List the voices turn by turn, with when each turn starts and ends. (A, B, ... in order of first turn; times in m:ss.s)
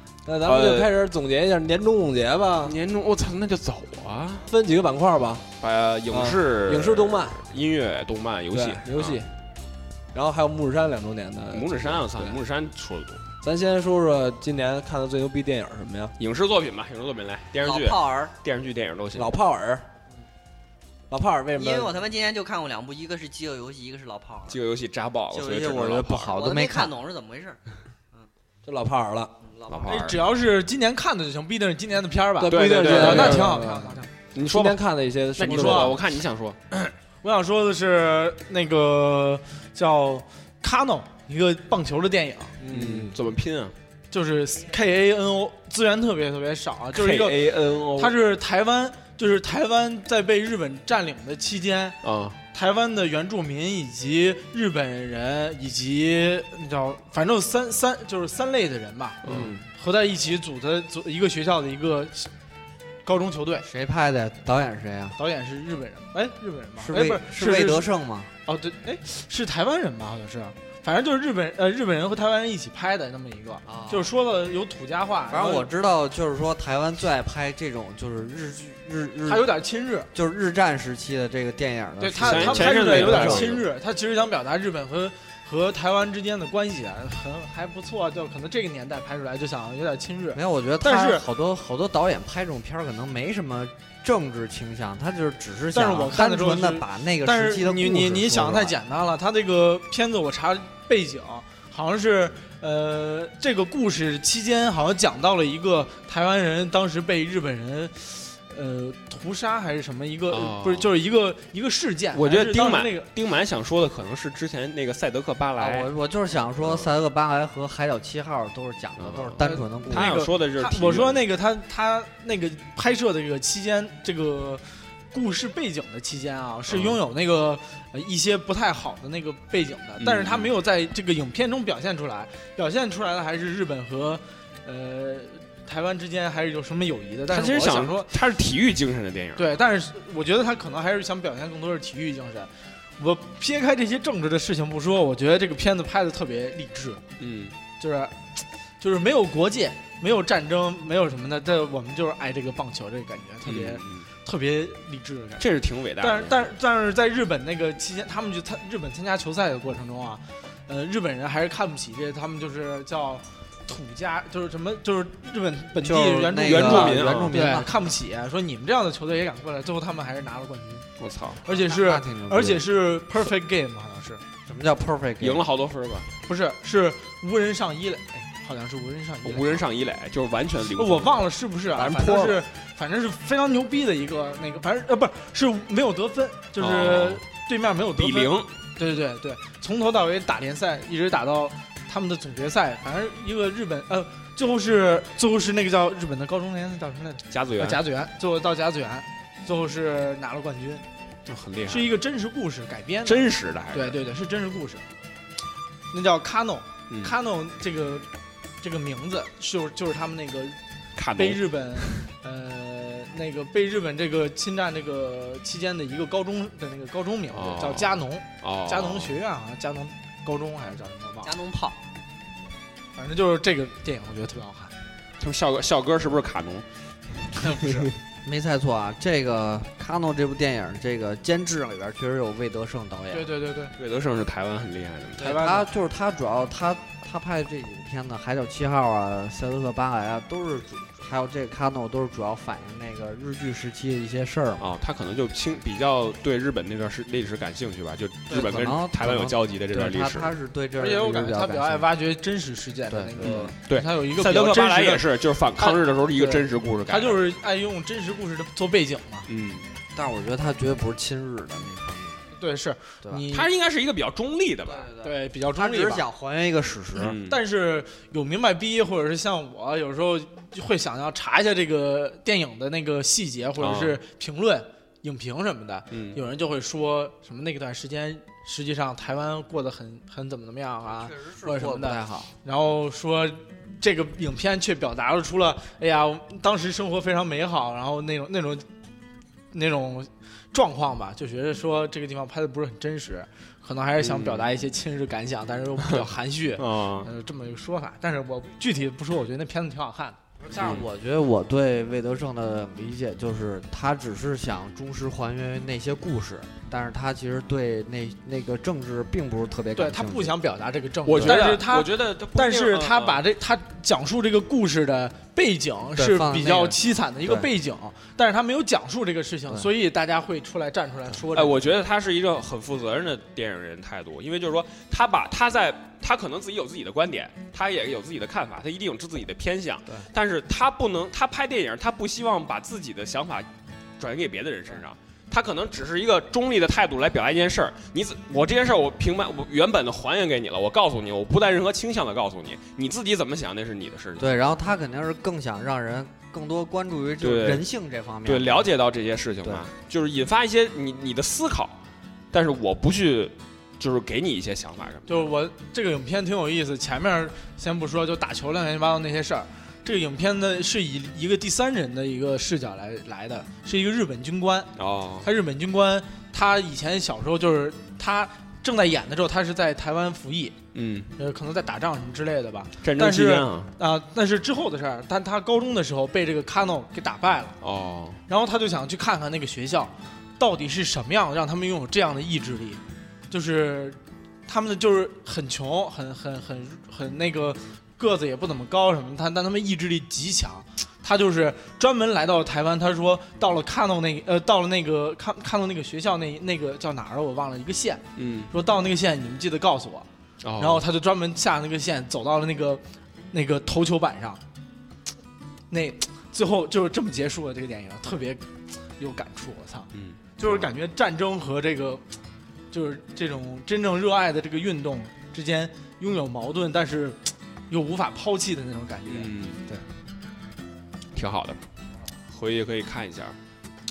0:00.3-0:02.8 A
0:00.4-0:00.9 B
0:02.6-0:04.5 B
0:04.5-0:05.4 A
0:05.6-0:09.2 B
0:06.1-0:07.4 A
0:08.5-0:09.3 A
0:10.1-0:12.4 A
0:11.5-0:13.2 B
0:13.4-0:16.1 A
0:16.2-0:19.4 B
0:17.6-0:18.3 C
0:19.1-0:19.8 A
0:21.1-0:22.0 A
0:21.5-0:24.6 C
0:24.5-0:26.4 B
0:25.3-0:27.0 D
0:26.3-0:27.6 C
0:28.6-0:29.3 A
0:29.4-0:30.1 C
0:29.7-0:30.2 B
0:29.9-0:34.1 E
0:32.4-0:36.0 A
0:32.5-0:33.5 B
0:34.4-0:34.8 B
0:35.4-0:36.7 B
0:35.5-0:36.0 E
0:37.2-0:42.6 E
0:42.6-0:43.2 A
0:42.7-0:43.7 B
0:44.1-0:52.0 E
0:47.0-0:48.2 B
0:52.0-0:52.4 B
0:52.5-1:02.3 E
0:59.2-0:59.6 B
0:59.3-0:59.6 A
1:03.0-1:03.7 E
1:03.6-1:05.2 D
1:05.2-1:07.9 E
1:06.8-1:08.3 D
1:08.5-1:15.7 E
1:13.7-1:14.1 D
1:15.3-1:19.5 D
1:19.3-1:20.1 E
1:20.1-1:23.6 D
1:22.0-1:31.2 E
1:22.2-1:23.6 B
1:30.3-1:38.8 D
1:35.7-1:53.1 E
1:50.3-1:50.9 B
1:52.1-1:55.9 B
1:55.6-2:00.2 D
1:56.6-1:56.9 B
1:59.0-2:01.2 B
1:59.4-2:18.1 E
2:06.7-2:07.0 B
2:10.0-2:10.5 B
2:17.3-2:19.6 B
2:19.4-2:27.0 E
2:27.2-2:27.5 B
2:27.8-2:28.3 E
2:28.8-2:35.5 E
2:33.5-2:34.1 B
2:35.4-2:36.4 B
2:36.0-2:50.9 E
2:45.8-2:47.7 D
2:46.4-2:47.4 B
2:51.0-2:51.4 B
2:51.4-2:54.2 E
2:51.6-2:52.7 D
2:54.5-2:55.4 D
2:55.2-2:56.1 B
2:56.3-2:59.6 E
2:59.2-3:01.3 B
3:00.8-3:20.8 E
3:01.7-3:02.4 A
3:06.6-3:07.2 B
3:08.0-3:08.5 B
3:17.3-3:17.8 B
3:21.3-3:21.9 B
3:21.7-3:24.8 E
3:23.1-3:24.0 B
3:25.9-3:28.1 E
3:28.6-3:30.6 E
3:31.0-3:32.0 B
3:31.2-3:41.3 E
3:37.3-3:39.1 B
3:41.2-3:41.8 C
3:43.0-3:44.7 E
3:45.2-3:46.6 B
3:47.2-3:47.7 B
3:47.4-3:47.9 E
3:48.2-3:53.3 D
3:53.1-3:53.7 E
3:53.8-3:55.3 B
3:55.2-3:55.7 E
3:55.2-4:04.6 D
4:04.6-4:10.3 B
4:08.3-4:11.9 D
4:10.8-4:15.1 E
4:12.9-4:13.5 D
4:13.2-4:17.2 B
4:15.6-4:19.3 E
4:19.3-4:19.7 B
4:20.0-4:22.2 D
4:22.4-4:23.5 E
4:23.3-4:24.9 B
4:24.8-4:27.2 D
4:25.0-4:26.1 E
4:27.0-4:27.4 B
4:27.2-4:48.7 E
4:33.6-4:34.0 B
4:35.9-4:36.2 B
4:41.0-4:42.3 D
4:49.5-5:00.8 E
4:54.0-4:54.5 B
4:56.6-4:57.1 B
5:00.4-5:10.4 D
5:00.6-5:00.9 B
5:09.8-5:21.6 E
5:11.1-5:13.2 B
5:16.0-5:17.5 D
5:21.3-5:33.5 B
5:34.0-5:44.3 B
5:44.2-5:48.7 D
5:47.2-5:47.7 B
5:48.2-5:51.8 B
5:52.3-5:55.3 B
5:55.1-6:04.7 E
6:04.8-6:05.3 B
6:05.2-6:10.6 E
6:10.7-6:11.1 B
6:11.2-6:17.6 E
6:12.8-6:13.7 B
6:17.6-6:18.2 B
6:18.3-6:40.1 E
6:38.2-6:38.5 B
6:40.4-6:40.8 B
6:40.6-6:44.4 E
6:45.7-6:52.0 E
6:49.9-6:50.7 B
6:52.7-6:59.8 E
6:59.1-6:59.6 B
7:01.1-7:01.6 B
7:02.3-7:03.4 B